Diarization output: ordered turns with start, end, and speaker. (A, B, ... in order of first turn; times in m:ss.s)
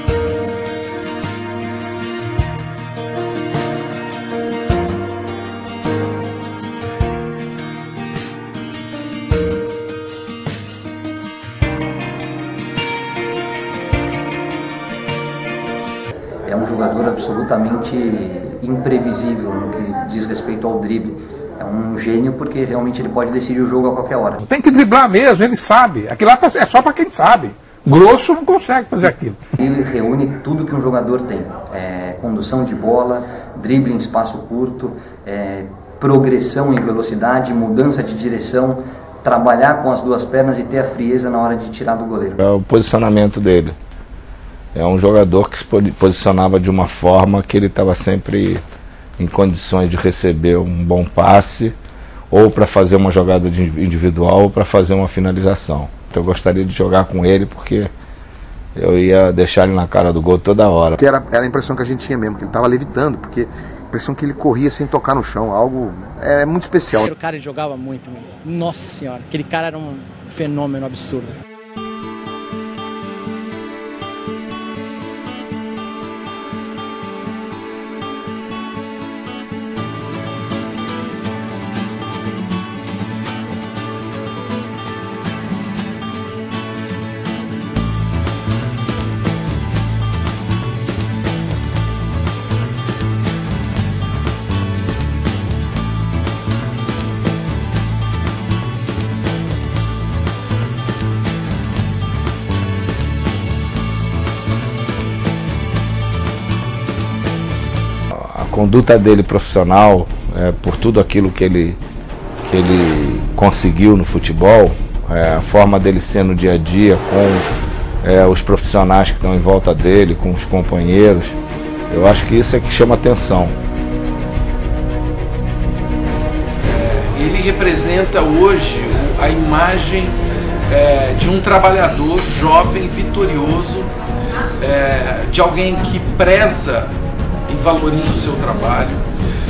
0:16.4-0:24.4 A
0:24.4-0:29.4 B
0:29.6-0:42.4 A
0:42.4-0:43.7 C
0:44.7-0:48.6 C
0:49.2-0:51.7 C
0:52.3-0:57.9 C
0:58.8-1:01.0 C
1:01.0-1:07.1 D
1:07.0-1:11.4 E
1:48.1-1:51.8 C
1:52.4-1:57.5 C
1:58.0-2:01.4 C
2:01.9-2:03.6 C
2:06.6-2:10.1 F
2:10.7-2:13.9 F
2:14.6-2:16.9 F
2:17.5-2:19.0 F